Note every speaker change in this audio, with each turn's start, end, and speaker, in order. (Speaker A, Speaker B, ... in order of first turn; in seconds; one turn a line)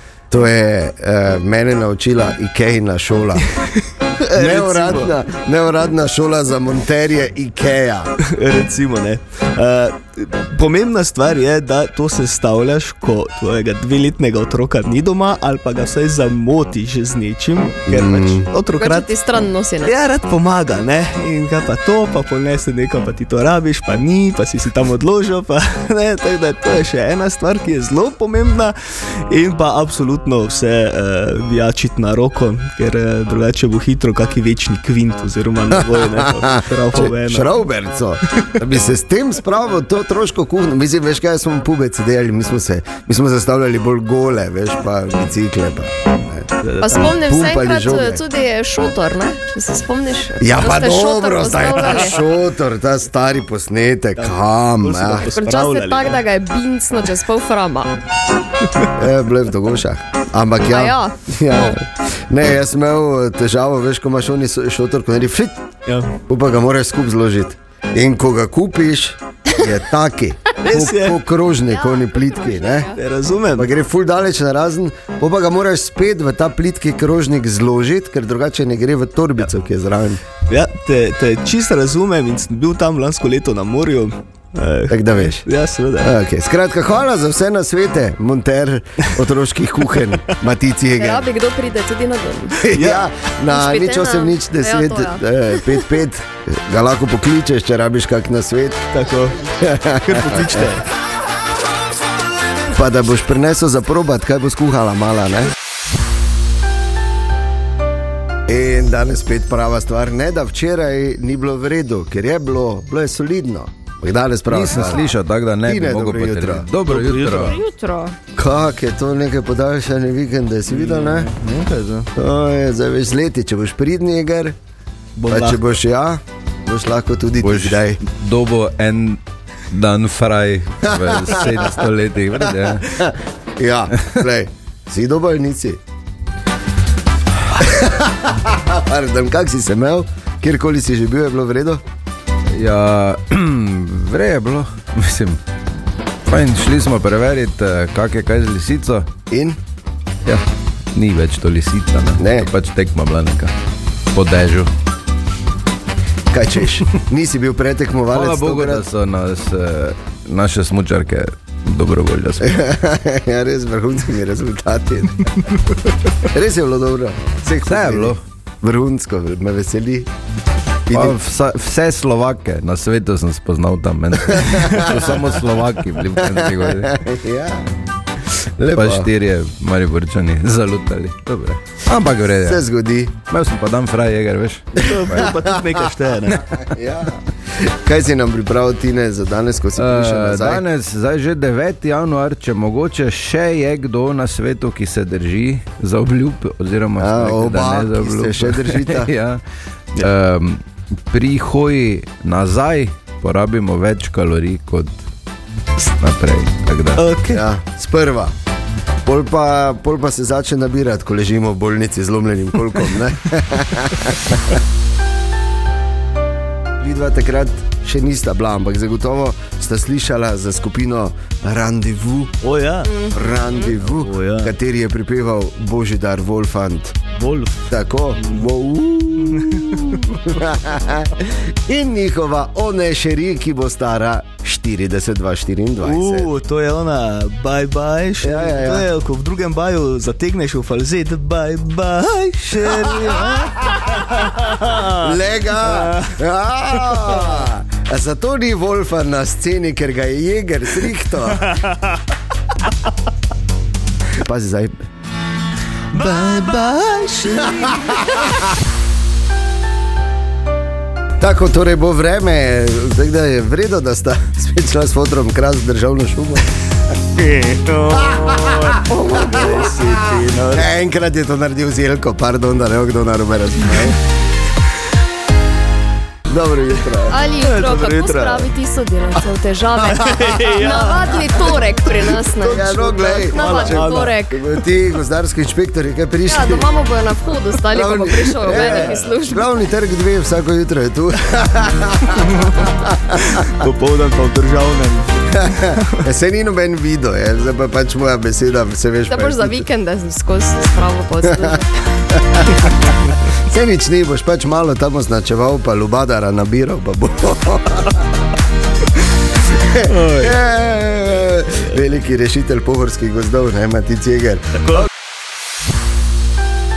Speaker A: 0.3-3.5
Speaker B: 3.5-5.2
Speaker A: 4.2-8.1
Speaker B: 8.2-19.1
Speaker A: 17.9-18.5
Speaker C: 18.8-19.9
Speaker B: 19.8-37.6
Speaker A: 35.8-46.5
Speaker B: 46.6-47.1
Speaker C: 46.8-52.2
Speaker A: 47.0-48.2
Speaker A: 50.4-55.3
Speaker B: 54.2-56.2
Speaker C: 55.4-58.0
Speaker A: 59.0-65.7
Speaker C: 60.7-61.8
Speaker B: 65.9-66.2
Speaker A: 66.3-72.9
Speaker B: 70.6-71.2
Speaker C: 71.7-73.0
Speaker B: 73.0-73.7
Speaker A: 73.6-80.2
Speaker B: 80.5-86.1
Speaker A: 84.9-85.5
Speaker A: 86.0-91.3
Speaker C: 91.0-92.6
Speaker A: 92.6-98.9
Speaker B: 92.7-93.1
Speaker C: 93.5-95.8
Speaker B: 98.9-100.9
Speaker A: 99.6-100.7
Speaker A: 102.7-105.5
Speaker A: 108.5-115.1
Speaker D: 114.5-117.6
Speaker A: 115.7-116.7
Speaker B: 116.9-117.6
Speaker C: 117.4-118.2
Speaker A: 118.3-121.3
Speaker B: 120.7-122.1
Speaker A: 122.2-124.6
Speaker B: 125.2-125.6
Speaker A: 125.3-128.0
Speaker D: 127.4-133.1
Speaker A: 130.8-131.8
Speaker A: 132.5-135.8
Speaker A: 137.6-141.8
Speaker D: 142.5-145.4
Speaker D: 146.3-149.1
Speaker A: 149.3-149.6
Speaker D: 150.2-153.5
Speaker A: 152.2-152.5
Speaker D: 154.1-154.7
Speaker A: 156.3-158.9
Speaker D: 158.1-162.6
Speaker A: 162.4-165.5
Speaker A: 166.2-170.1
Speaker D: 167.7-168.2
Speaker A: 170.9-171.2
Speaker D: 170.9-176.9
Speaker A: 174.2-175.3
Speaker A: 176.2-177.7
Speaker A: 178.3-179.1
Speaker D: 178.7-182.6
Speaker A: 182.4-183.2
Speaker D: 183.3-185.3
Speaker B: 184.8-186.5
Speaker A: 184.9-185.6
Speaker A: 186.4-190.7
Speaker D: 189.8-199.4
Speaker A: 197.0-199.1
Speaker D: 199.9-205.0
Speaker D: 205.8-207.1
Speaker B: 207.0-207.4
Speaker A: 207.3-208.3
Speaker A: 209.1-214.6
Speaker A: 216.8-222.4
Speaker B: 222.4-222.9
Speaker C: 222.9-223.7
Speaker A: 223.1-227.1
Speaker B: 223.8-224.5
Speaker B: 227.2-227.6
Speaker A: 227.7-236.3
Speaker B: 228.2-228.5
Speaker B: 229.2-230.2
Speaker B: 235.8-246.2
Speaker A: 238.2-238.9
Speaker A: 242.6-251.6
Speaker B: 246.8-247.4
Speaker B: 251.4-252.0
Speaker A: 254.1-254.7
Speaker B: 255.9-258.4
Speaker A: 257.5-258.4
Speaker A: 261.2-266.5
Speaker B: 267.1-270.7
Speaker A: 267.9-274.0
Speaker A: 276.3-277.2
Speaker C: 277.1-284.4
Speaker B: 277.4-278.5
Speaker B: 279.9-284.2
Speaker A: 282.4-286.7
Speaker C: 286.3-289.5
Speaker A: 287.7-293.5
Speaker B: 288.5-289.1
Speaker B: 292.3-292.6
Speaker B: 293.2-296.0
Speaker A: 295.3-299.7
Speaker C: 299.1-301.7
Speaker A: 301.3-301.6
Speaker A: 302.1-308.1
Speaker A: 309.4-314.8
Speaker B: 309.9-310.4
Speaker B: 314.6-314.9